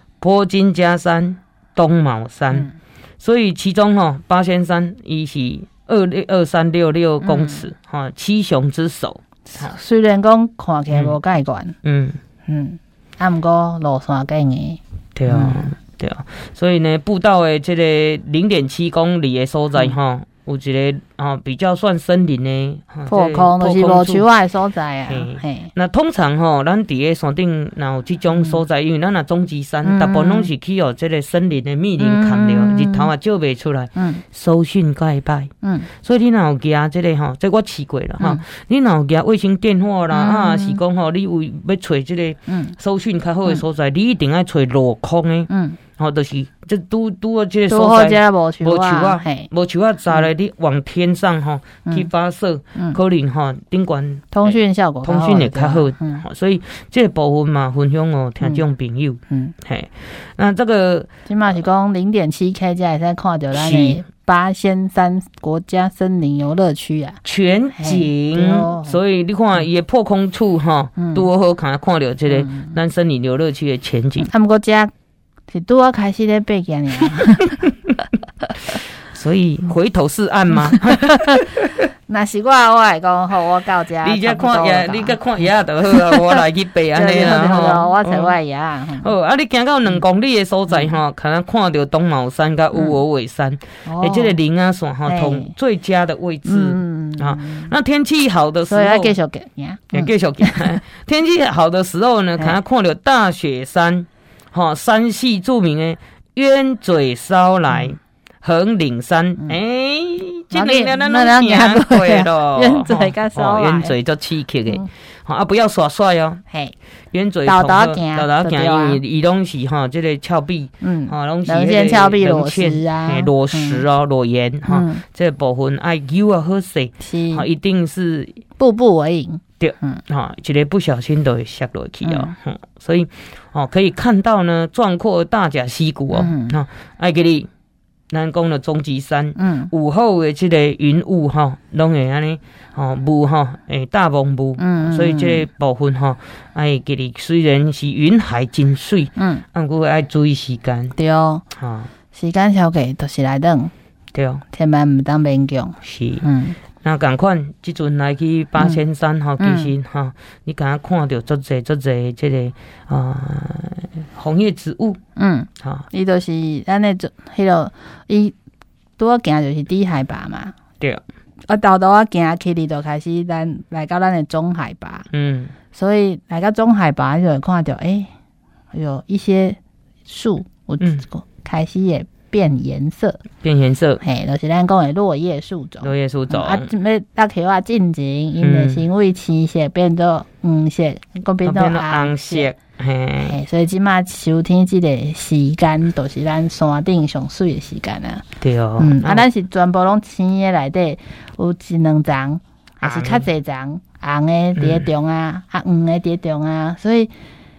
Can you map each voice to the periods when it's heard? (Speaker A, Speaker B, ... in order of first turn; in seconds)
Speaker A: 0.2-9.7, 11.8-12.2, 15.2-24.2, 25.1-61.1, 63.5-64.0, 67.2-74.3, 78.7-81.7, 84.0-88.3, 89.0-99.1, 99.9-116.4, 117.1-128.4, 129.6-137.5, 138.1-150.9, 151.6-151.9, 154.1-154.4, 155.8-156.2, 156.8-165.0, 175.1-175.5, 183.4-184.0, 185.8-186.7, 188.4-188.8, 191.4-193.3, 198.4-199.2, 202.8-203.3, 204.6-204.9
Speaker B: 7.2-7.7, 9.5-11.8, 12.4-15.6, 23.1-25.7, 28.3-28.6, 29.8-30.5, 32.0-33.1, 34.0-34.2, 35.6-35.9, 40.1-40.8, 42.5-42.8, 45.5-45.8, 47.7-49.5, 54.3-56.2, 59.3-59.5, 61.3-67.2, 67.8-69.0, 71.0-71.2, 72.3-72.7, 74.2-74.9, 75.5-77.7, 80.6-81.4, 82.1-86.4, 86.9-89.1, 92.7-93.0, 93.8-94.4, 95.0-95.5, 96.4-97.7, 98.7-100.7, 110.5-113.9, 116.5-116.7, 117.4-119.0, 120.8-123.8, 124.7-125.0, 127.0-127.5, 128.6-130.0, 132.0-132.3, 136.1-136.6, 139.3-139.7, 144.6-145.4, 149.2-149.4, 150.9-151.4, 152.1-153.7, 154.5-156.6, 159.4-159.7, 165.2-168.3, 169.0-170.5, 171.5-175.1, 175.7-178.1, 178.7-183.2, 184.0-192.5, 193.2-198.2, 198.8-207.1